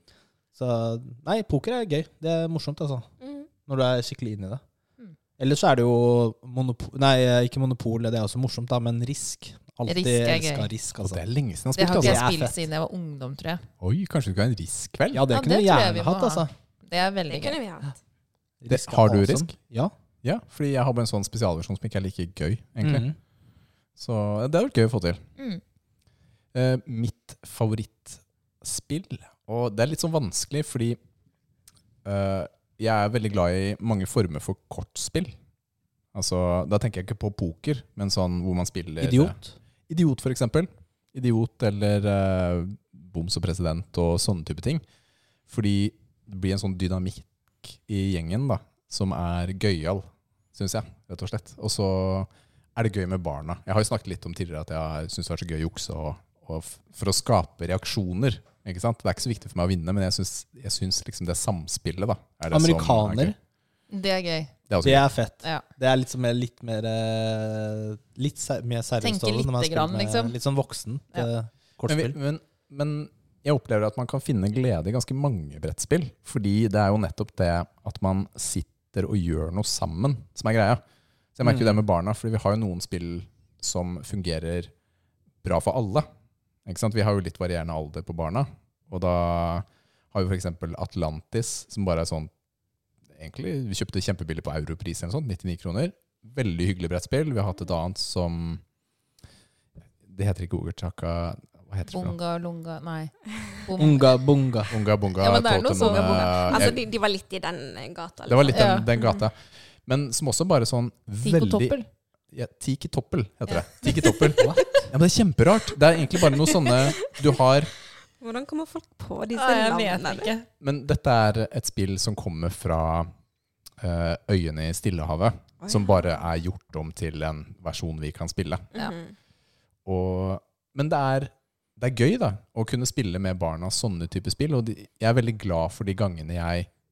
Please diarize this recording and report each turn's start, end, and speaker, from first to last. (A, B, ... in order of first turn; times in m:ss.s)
0:00.6-0:03.1 A
0:03.2-0:03.5 B
0:03.6-0:04.6 A
0:05.4-0:11.2 A
0:09.9-0:10.7 C
0:11.0-0:12.3 D
0:11.8-0:13.7 C
0:11.8-0:12.6 A
0:13.8-0:15.3 D
0:15.1-0:16.5 A
0:15.3-0:17.6 C
0:17.3-0:18.0 B
0:18.6-0:19.9 A
0:18.7-0:19.5 D
0:20.2-0:23.1 D
0:22.8-0:23.2 A
0:24.0-0:25.2 D
0:26.5-0:31.0 D
0:32.0-0:35.4 D
0:36.1-0:39.4 D
0:39.0-0:39.6 A
0:39.9-0:44.8 D
0:45.5-1:03.4 D
1:02.5-1:03.4 A
1:03.9-1:04.5 C
1:04.7-1:05.1 D
1:04.8-1:12.2 A
1:09.0-1:10.4 C
1:11.9-1:20.8 D
1:21.4-1:24.7 D
1:21.4-1:21.8 A
1:25.4-1:26.1 D
1:26.7-1:32.3 D
1:33.2-1:38.6 D
1:40.1-1:42.2 D
1:41.9-1:44.2 C
1:43.8-1:44.7 A
1:44.7-1:46.8 D
1:45.2-1:46.7 C
1:45.8-1:49.2 B
1:48.3-1:51.8 D
1:48.5-1:48.9 C
1:51.2-1:51.9 C
1:52.3-1:57.7 D
1:54.3-1:54.9 A
1:56.6-1:56.9 B
1:58.2-2:00.3 B
1:59.4-2:00.5 C
2:00.6-2:03.1 D
2:03.8-2:08.7 D
2:05.6-2:06.1 B
2:08.7-2:09.1 B
2:09.8-2:16.7 D